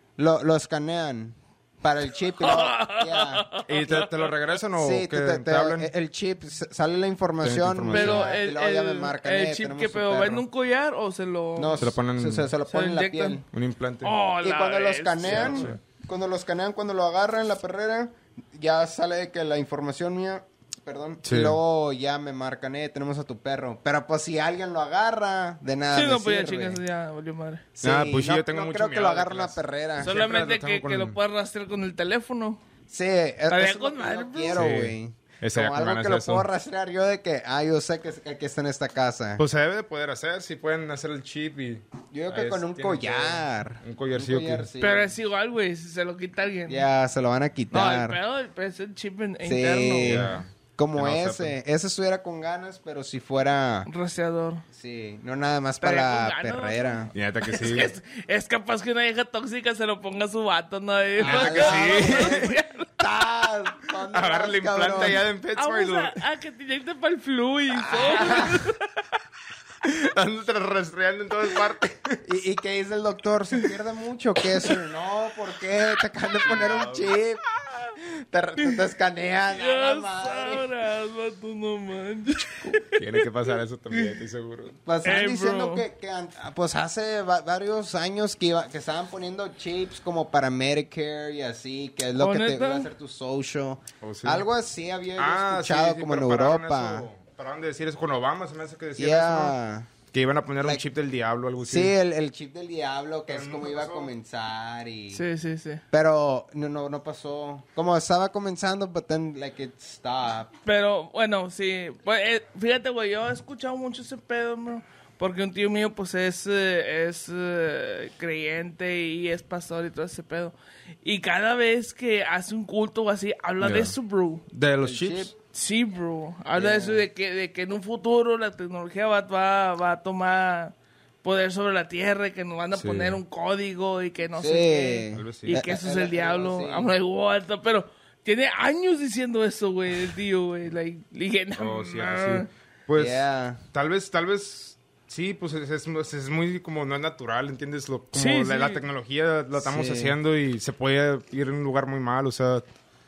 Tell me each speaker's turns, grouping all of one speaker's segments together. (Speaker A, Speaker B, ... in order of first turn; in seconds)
Speaker A: 0.2-3.5, 4.8-10.4, 11.6-13.4, 14.4-26.8, 27.8-30.2, 32.9-39.4, 42.1-45.1, 46.7-48.2, 49.4-53.9, 54.7-57.1, 61.2-65.2, 67.7-68.7, 72.2-77.4, 78.0-80.7, 84.8-97.1, 99.0-99.9, 101.7-105.2, 105.9-110.5, 124.8-125.3, 126.5-127.1, 134.4-136.9, 143.0-143.6, 149.6-150.2
Speaker B: 2.4-4.3, 7.9-11.9, 12.7-13.4, 14.0-15.8, 25.9-27.6, 30.0-32.6, 33.5-34.7, 44.8-46.9, 47.7-50.3, 53.9-54.6, 55.8-63.0, 65.5-68.8, 79.5-83.0, 85.0-85.8, 92.2-92.9, 105.1-105.8, 110.7-124.4, 125.5-142.5, 148.1-148.8
Speaker C: 3.7-5.9, 7.4-8.3, 11.8-12.5, 13.5-14.2, 15.2-15.8, 21.2-21.6, 27.8-31.2, 34.5-36.5, 39.4-44.7, 50.0-51.5, 57.1-57.9, 61.2-62.5, 64.1-66.2, 69.8-72.2, 76.4-77.1, 83.0-84.8, 94.0-94.5, 95.2-99.6, 100.1-101.9, 103.3-104.1, 123.6-124.0, 124.5-125.3, 132.7-133.2, 135.1-135.6, 141.6-152.7